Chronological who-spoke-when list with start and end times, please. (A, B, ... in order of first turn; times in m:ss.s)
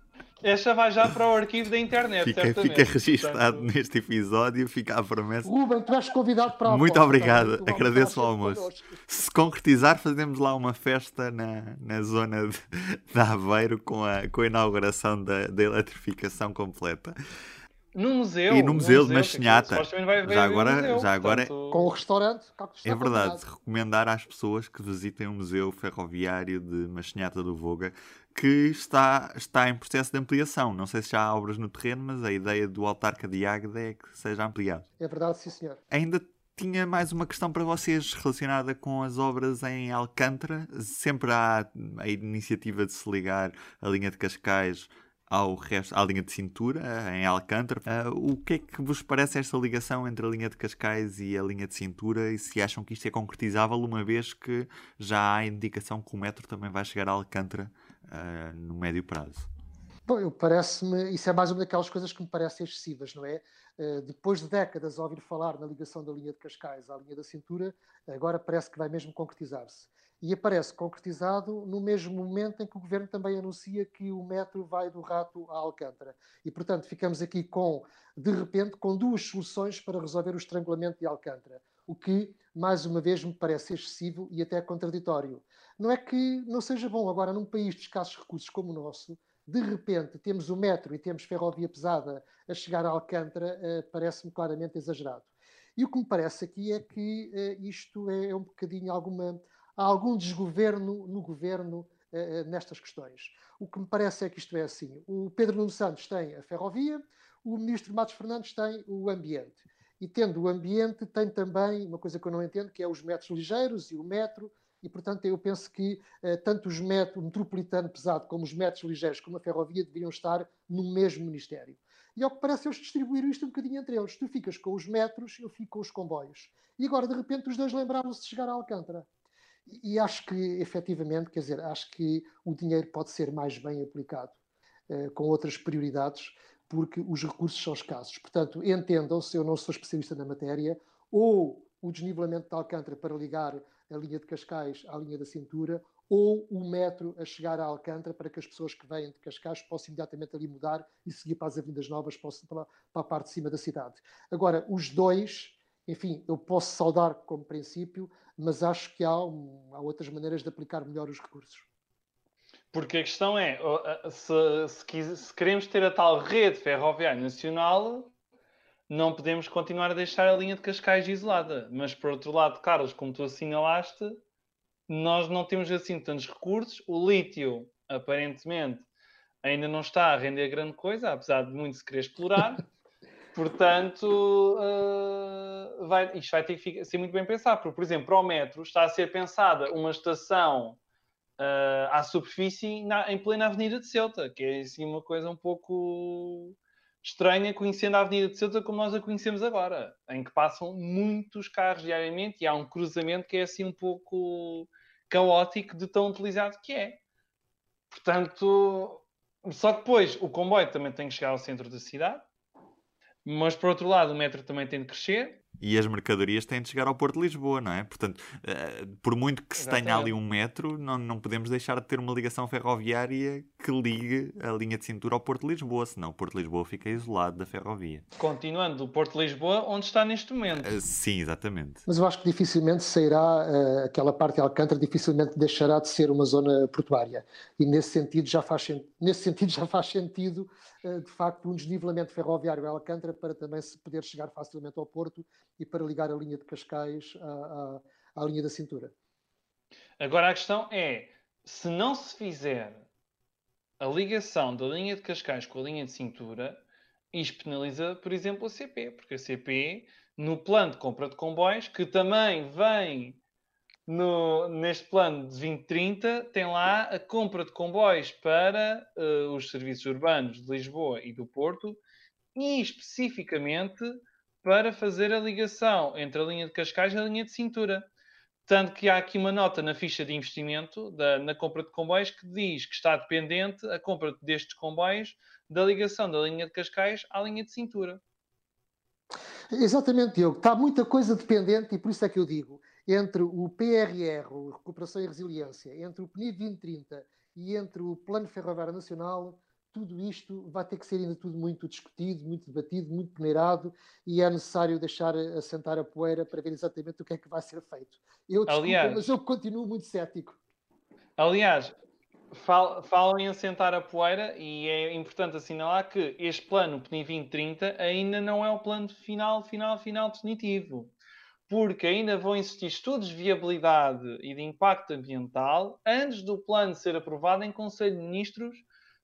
0:00.4-0:03.7 A
0:02.2-0:05.5 B
0:05.4-0:09.0 C
0:06.6-0:17.1 B
0:17.9-0:21.8 A
0:18.5-0:21.5 B
0:21.7-0:23.4 C
0:22.8-0:34.8 B
0:35.0-0:35.8 C
0:35.9-0:59.5 B
1:00.1-2:09.1 C
2:09.7-2:14.4 C
2:14.9-2:41.7 C
2:42.7-2:48.1 A
2:48.9-2:54.2 A
2:54.9-2:58.8 A
2:59.4-3:02.6 A
3:03.3-3:10.8 A
3:11.4-3:27.0 A
3:27.9-3:32.2 A
3:33.2-3:35.4 A
3:35.6-3:48.0 B
3:39.6-3:40.2 A
3:48.2-3:50.7 A
3:50.6-3:51.8 B
3:51.9-4:08.9 C
4:10.0-4:12.8 A
4:13.8-4:16.6 A
4:17.1-4:23.2 A
4:23.9-4:31.8 A
4:32.3-4:37.9 A
4:38.5-4:48.0 A
4:49.5-5:10.4 C
5:08.5-5:09.1 A
5:11.2-5:11.7 A
5:12.3-5:20.9 A
5:21.5-5:28.6 A